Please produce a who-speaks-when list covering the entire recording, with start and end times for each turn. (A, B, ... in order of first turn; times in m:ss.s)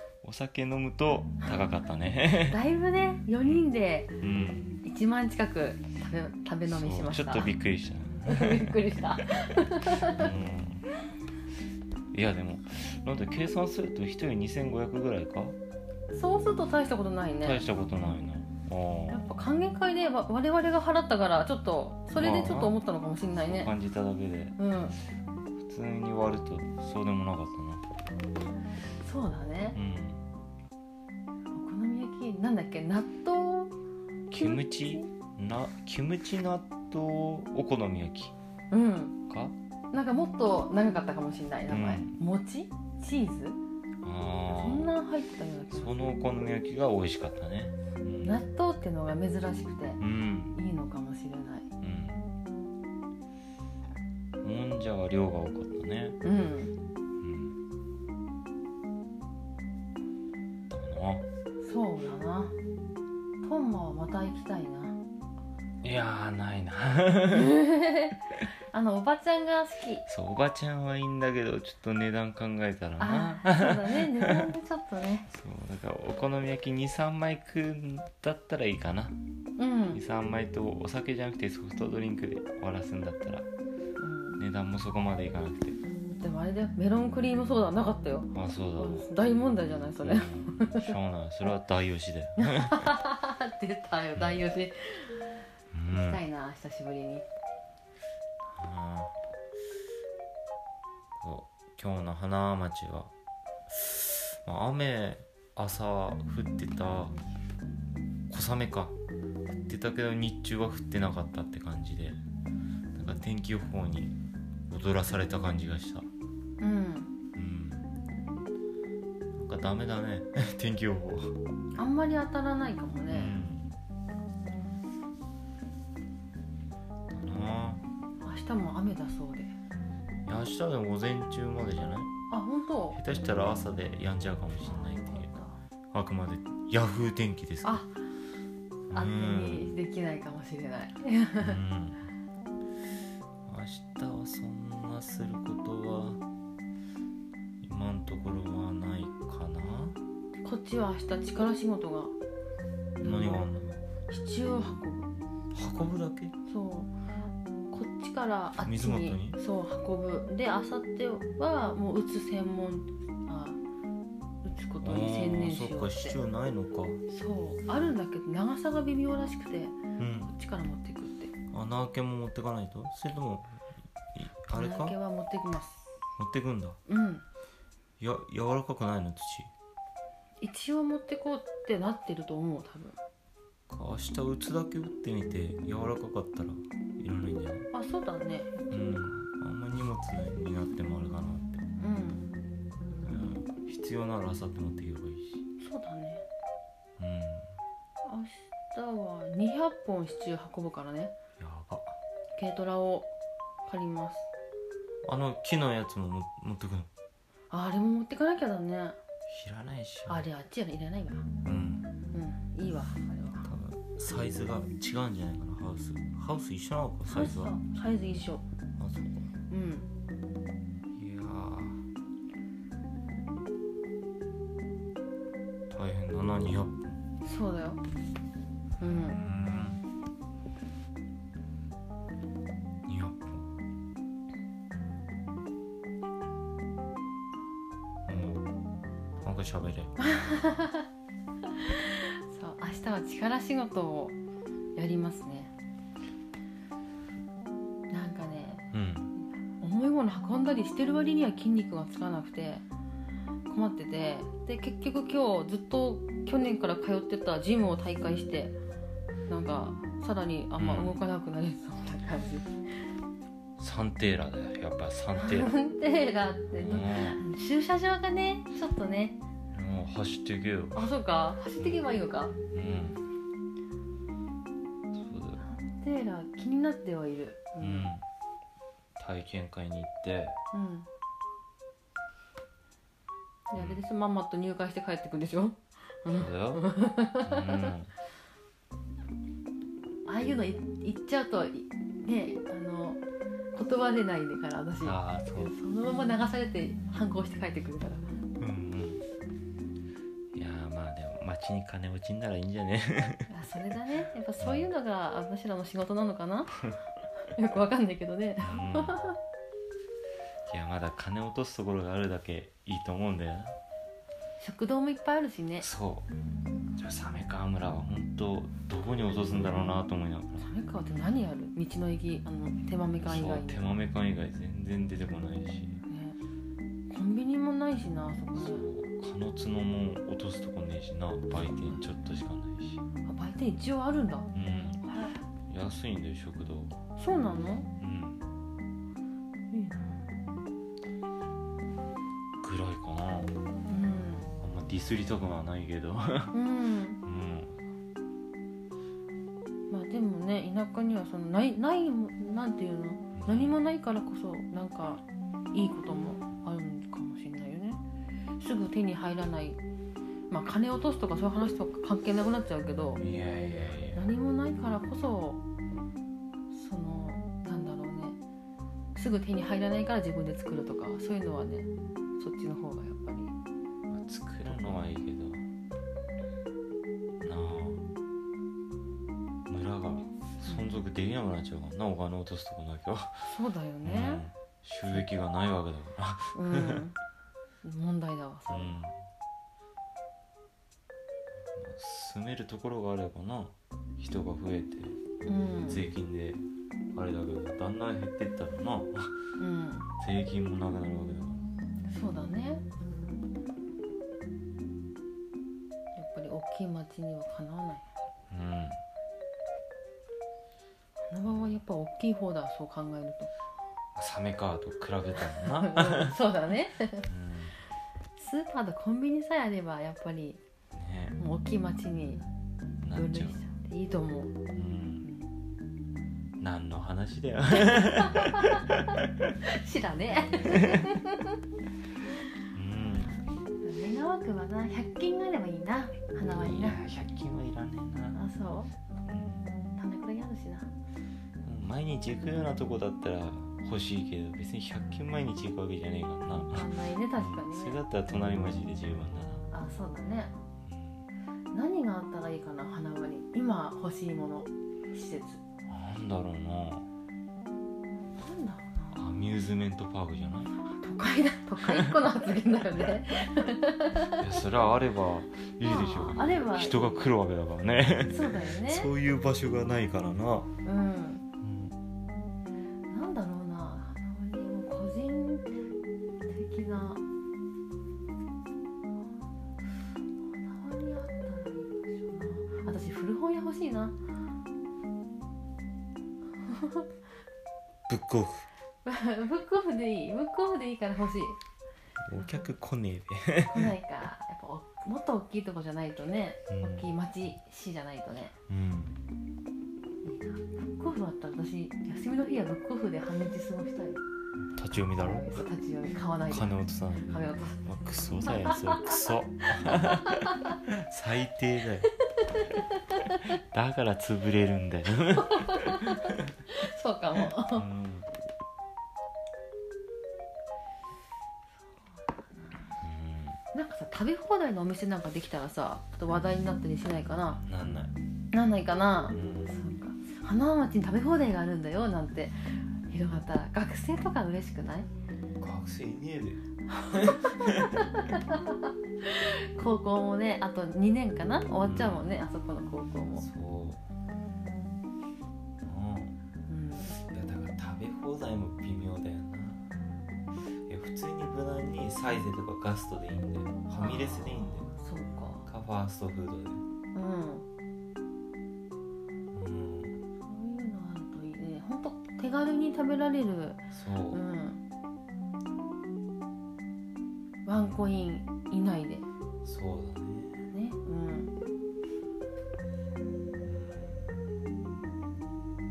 0:00.2-0:02.6 A
0:02.5-0:04.1 B
0:04.2-0:04.8 A
0:04.8-0:07.5 B
0:06.7-0:08.8 A
0:08.2-0:10.3 B
0:10.0-0:10.8 A
0:12.1-0:15.6 A
0:16.1-0:17.6 B
0:17.4-0:19.2 A
0:19.1-0:23.7 B
0:22.1-0:22.8 A
0:23.3-0:24.6 A
0:24.6-0:25.0 B
0:25.6-0:27.8 A
0:29.0-0:29.8 B
0:29.7-0:30.2 A
0:31.5-0:33.7 B
0:34.3-0:38.3 A
0:34.3-0:35.1 B
0:38.7-0:39.2 B
0:39.3-0:39.5 A
0:39.9-0:43.6 B
0:41.7-0:42.1 A
0:44.0-0:44.9 A
0:44.5-0:46.0 B
0:45.7-0:48.4 A
0:48.2-0:50.0 B
0:50.0-0:50.6 A
0:50.5-0:51.7 B
0:51.8-0:52.2 A
0:54.4-0:56.2 A
0:56.2-0:56.7 B
0:57.2-0:57.6 A
1:00.7-1:01.2 A
1:01.6-1:02.5 B
1:03.4-1:05.0 B
1:05.8-1:07.6 A
1:07.3-1:10.0 B
1:10.0-1:14.5 A
1:13.0-1:15.3 B
1:15.3-1:19.2 A
1:19.6-1:20.0 B
1:19.9-1:23.5 A
1:24.0-1:24.4 B
1:24.4-1:25.8 A
1:26.2-1:30.9 B
1:28.3-1:32.9 A
1:32.4-1:35.2 B
1:34.2-1:34.4 A
1:35.7-1:36.2 A
1:35.9-1:37.2 B
1:38.4-1:39.2 A
1:41.2-1:43.1 A
1:43.7-1:47.2 A
1:48.3-1:48.9 A
1:49.5-1:52.2 A
1:52.9-1:54.2 A
1:54.7-1:56.1 A
1:56.6-1:57.1 B
1:57.3-1:57.9 A
1:59.4-2:01.3 A
2:01.8-2:03.4 B
2:03.1-2:03.7 A
2:07.1-2:07.8 A
2:08.2-2:09.5 B
2:10.2-2:12.1 A
2:12.3-2:13.0 B
2:12.9-2:15.3 A
2:14.6-2:15.6 B
2:15.9-2:17.8 A
2:17.6-2:17.9 B
2:18.9-2:19.7 A
2:18.9-2:21.6 B
2:21.4-2:22.0 A
2:23.4-2:26.2 A
2:27.6-2:30.0 A
2:30.4-2:32.1 B
2:33.0-2:33.5 B
2:33.0-2:33.8 A
2:34.1-2:35.1 B
2:35.5-2:36.3 A
2:36.5-2:36.9 B
2:37.7-2:43.6 B
2:38.6-2:39.4 A
2:44.4-2:46.2 B
2:44.8-2:47.0 A
2:47.1-2:51.3 B
2:50.0-2:50.3 A
2:51.5-2:53.6 A
2:54.1-2:55.0 A
2:54.5-2:55.9 B
2:56.2-2:56.8 A
2:56.9-2:57.2 B
2:58.0-2:59.5 A
3:00.4-3:03.0 B
3:03.7-3:07.7 A
3:07.7-3:09.1 B
3:08.7-3:11.6 A
3:11.8-3:12.3 B
3:13.0-3:15.4 A
3:15.6-3:16.2 B
3:17.0-3:17.5 A
3:18.0-3:21.1 B
3:21.4-3:22.0 A
3:22.4-3:23.1 B
3:23.6-3:24.3 B
3:25.0-3:26.9 A
3:27.5-3:29.0 B
3:29.3-3:30.3 A
3:30.1-3:31.2 B
3:31.4-3:31.9 A
3:32.1-3:33.5 B
3:33.4-3:37.6 A
3:37.1-3:38.4 B
3:38.8-3:39.3 A
3:39.5-3:39.9 B
3:40.9-3:41.8 A
3:45.7-3:47.0 A
3:47.2-3:47.8 B
3:48.8-3:49.8 A
3:48.8-3:49.2 B
3:52.8-3:53.5 A
3:58.0-3:58.4 A
3:59.2-4:00.0 A
4:00.0-4:00.9 B
4:01.5-4:04.2 B
4:04.8-4:05.5 B
4:07.9-4:08.6 B
4:08.7-4:09.1 A
4:09.6-4:12.6 B
4:13.5-4:18.5 B
4:19.3-4:22.5 B
4:20.6-4:21.0 A
4:23.6-4:25.5 A
4:25.1-4:29.2 B
4:26.5-4:27.2 A
4:29.5-4:30.9 A
4:30.7-4:32.4 B
4:32.5-4:33.0 A
4:34.9-4:35.4 A
4:35.4-4:37.9 B
4:37.6-4:38.0 A
4:39.0-4:40.4 A
4:40.5-4:40.9 B
4:43.5-4:47.7 B
4:43.6-4:43.8 A
4:46.1-4:46.6 A
4:47.2-4:47.9 A
4:50.0-4:53.0 B
4:53.5-4:58.0 B
4:54.8-4:55.5 A
4:58.4-4:59.0 A
5:00.3-5:03.3 A
5:03.3-5:06.6 B
5:04.4-5:04.7 A
5:07.2-5:09.2 B
5:08.4-5:09.0 A
5:10.5-5:13.6 A
5:14.4-5:15.7 B
5:15.6-5:16.1 A
5:16.8-5:20.5 A
5:20.4-5:23.7 B
5:23.0-5:25.8 A
5:25.9-5:26.2 B
5:26.9-5:28.6 B
5:28.3-5:32.8 A
5:31.4-5:31.8 B
5:33.0-5:34.3 B
5:34.3-5:34.8 A
5:34.8-5:35.2 B
5:35.5-5:36.8 A
5:37.0-5:37.7 B
5:37.8-5:38.2 A
5:39.5-5:40.0 B
5:42.4-5:43.3 A
5:43.7-5:44.3 B
5:44.4-5:46.3 A
5:46.3-5:47.0 B
5:47.0-5:47.6 A
5:49.7-5:57.8 B
5:53.2-5:53.6 A
5:58.4-5:59.6 B
6:00.3-6:03.0 B
6:03.0-6:04.0 A
6:03.9-6:05.4 B
6:06.5-6:08.2 B
6:08.9-6:13.3 B
6:13.9-6:15.4 A
6:17.2-6:17.8 A
6:19.5-6:23.3 A
6:23.2-6:24.2 B
6:23.8-6:26.8 A
6:26.3-6:27.0 B
6:27.6-6:28.8 B
6:28.5-6:29.0 A
6:31.5-6:35.0 A
6:35.2-6:35.8 B
6:35.7-6:39.2 A
6:39.4-6:39.9 B
6:40.0-6:41.4 A
6:41.9-6:42.6 B
6:46.0-6:47.8 B
6:48.3-6:48.8 A
6:51.1-6:53.3 B
6:51.2-6:51.6 A
6:53.9-6:56.1 A
6:55.4-6:57.1 B
6:57.0-6:57.6 A
6:58.2-7:00.4 B
7:00.7-7:01.2 A
7:01.2-7:02.2 B
7:02.8-7:03.4 A
7:02.9-7:04.4 B
7:04.5-7:05.1 A
7:05.0-7:05.3 B
7:06.4-7:09.3 A
7:07.6-7:08.8 B
7:09.4-7:11.4 B
7:10.4-7:10.9 A
7:12.5-7:13.2 A
7:13.6-7:16.8 B
7:16.2-7:18.2 A
7:18.1-7:18.7 B
7:19.1-7:19.5 A
7:19.8-7:20.7 B
7:21.4-7:29.5 A
7:26.5-7:27.8 B
7:29.5-7:30.3 B
7:30.6-7:31.0 A
7:31.5-7:35.4 B
7:35.7-7:36.8 A
7:38.1-7:39.0 B
7:38.9-7:40.5 A
7:40.6-7:44.3 B
7:41.6-7:41.9 A
7:44.2-7:50.5 A
7:45.6-7:47.0 B
7:48.1-7:48.9 B
7:50.6-7:51.2 B
7:51.4-7:51.8 A
7:52.9-7:55.5 B
7:56.3-7:57.0 B
8:00.2-8:04.0 B
8:06.4-8:06.9 B
8:07.9-8:08.5 A
8:08.8-8:11.4 B
8:12.0-8:13.7 A
8:12.2-8:12.5 B
8:13.5-8:18.3 B
8:16.5-8:16.9 A
8:18.5-8:19.0 A
8:20.0-8:24.0 B
8:24.5-8:25.4 A
8:24.8-8:26.6 B
8:26.3-8:31.9 A
8:27.1-8:27.6 B
8:28.2-8:29.0 B
8:29.6-8:30.6 B
8:32.2-8:33.4 B
8:33.3-8:36.3 A
8:35.2-8:37.6 B
8:37.3-8:38.1 A
8:41.8-8:42.8 B
8:42.8-8:43.4 A
8:43.5-8:47.4 B
8:47.4-8:47.9 A
8:48.3-8:54.9 B
8:49.1-8:49.6 A
8:55.4-8:57.9 A
8:56.7-9:03.2 B
9:01.6-9:02.1 A
9:03.2-9:03.8 A
9:05.6-9:06.1 A
9:06.5-9:07.0 B
9:07.0-9:09.6 A
9:10.7-9:14.7 A
9:13.8-9:15.5 B
9:15.4-9:16.6 A
9:16.9-9:17.4 B
9:19.3-9:20.0 A
9:20.2-9:24.6 B
9:23.7-9:24.2 A
9:27.4-9:29.0 B
9:27.5-9:27.8 A
9:29.4-9:30.5 A
9:30.5-9:31.3 B
9:33.4-9:34.2 A